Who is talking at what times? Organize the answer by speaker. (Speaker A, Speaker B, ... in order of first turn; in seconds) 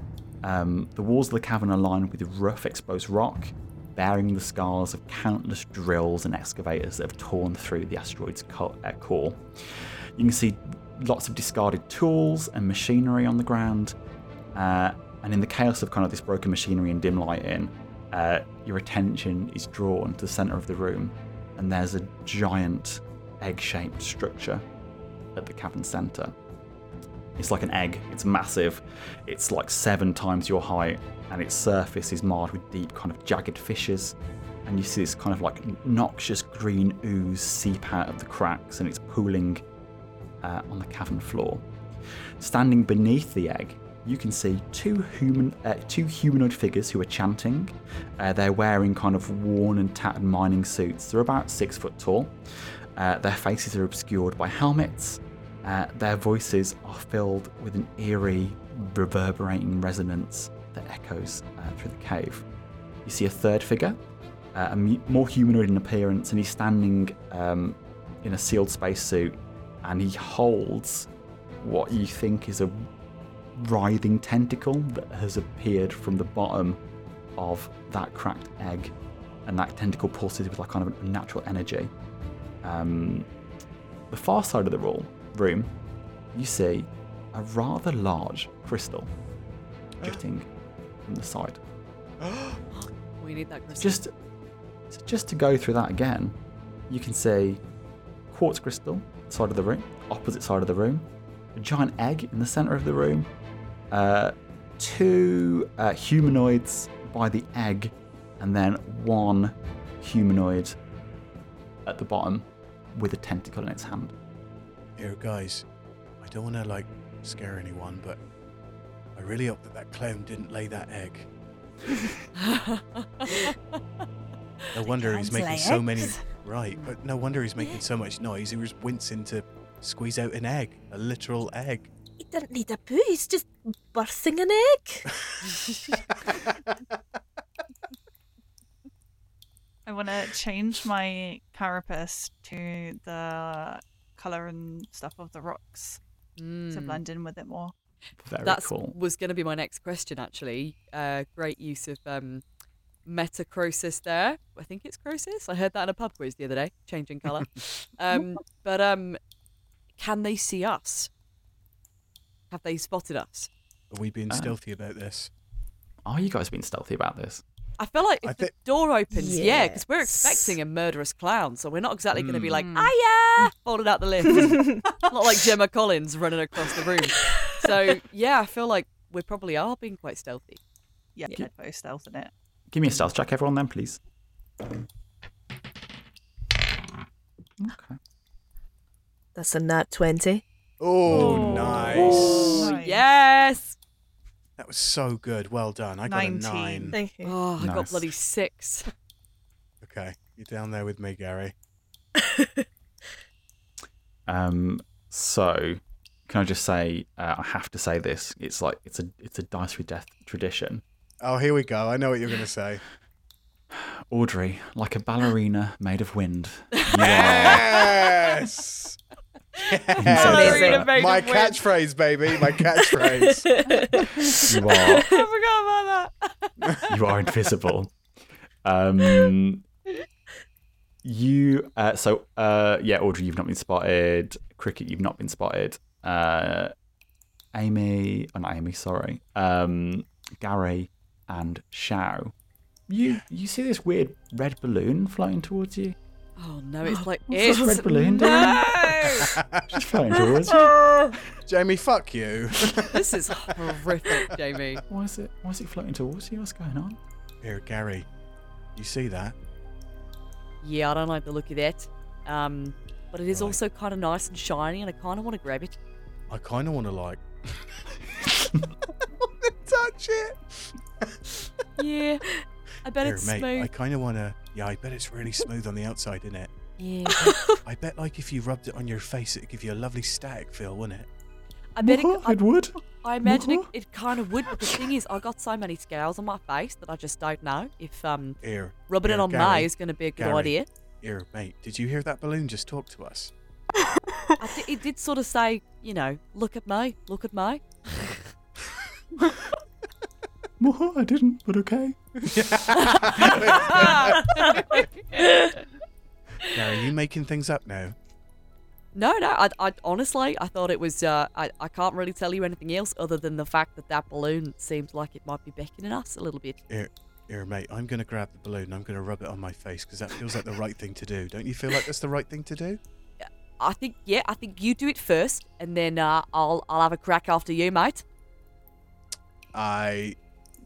Speaker A: 0.4-13.9, 14.5-24.6, 25.3-26.3, 27.4-39.6, 40.4-41.6, 42.4-52.3, 53.0-62.5, 63.0-64.0, 64.5-71.1, 71.6-72.9, 73.5-76.8, 77.4-78.9, 79.5-81.9, 82.6-83.3, 84.1-85.7, 86.3-89.1, 90.0-90.5, 91.0-91.6, 93.8-94.1, 94.9-96.4, 96.9-97.6, 98.3-103.3, 103.9-110.8, 111.8-114.1, 148.2-148.9, 164.3-164.5, 166.0-167.4, 182.7-184.0, 187.6-188.0, 191.1-192.7, 197.6-198.1, 204.3-210.8, 213.7-217.8, 220.0-220.9, 224.4-225.1, 226.9-228.0, 228.6-229.7, 231.0-236.7, 237.5-242.3, 242.9-245.9, 247.3-248.7, 249.7-250.7, 254.9-257.0, 281.8-283.7, 300.6-302.2, 303.1-303.8
Speaker B: 92.2-92.6, 115.0-115.6, 116.2-118.2, 119.1-121.3, 124.7-131.9, 135.9-136.8, 163.9-165.3, 168.2-168.5, 172.1-172.9, 190.8-192.5, 194.6-196.9, 199.8-201.5, 211.2-212.8, 217.0-219.0, 219.6-223.4, 249.2-249.7, 251.5-253.6, 257.4-258.1, 258.7-259.3, 263.3-263.6, 266.3-267.8, 269.2-271.2, 273.0-276.5, 277.6-281.1, 288.4-293.3, 302.2-304.8, 306.5-307.9, 316.7-322.8, 329.5-330.2
Speaker C: 92.8-94.0, 122.4-123.5, 146.4-147.0, 148.4-152.4, 153.1-159.2, 160.0-161.1, 162.5-163.5, 167.8-180.6, 191.6-193.8, 197.2-198.9, 216.8-217.6, 219.9-221.6, 225.1-226.8, 246.4-249.3, 252.9-254.8, 260.6-265.8, 271.8-272.3, 272.8-273.7, 276.8-277.4, 281.7-282.4, 283.0-290.7, 294.4-297.6, 302.7-305.6, 308.9-316.6, 323.2-328.0
Speaker D: 124.9-126.2, 139.8-146.0, 146.7-147.7, 181.2-182.3, 192.1-193.0, 196.1-196.9, 225.0-225.2
Speaker E: 132.2-135.2, 169.1-170.5, 174.3-174.8, 189.3-190.4, 196.9-197.3, 202.2-202.6, 220.1-220.9, 222.8-225.2, 247.4-249.3, 250.1-251.2, 277.1-277.6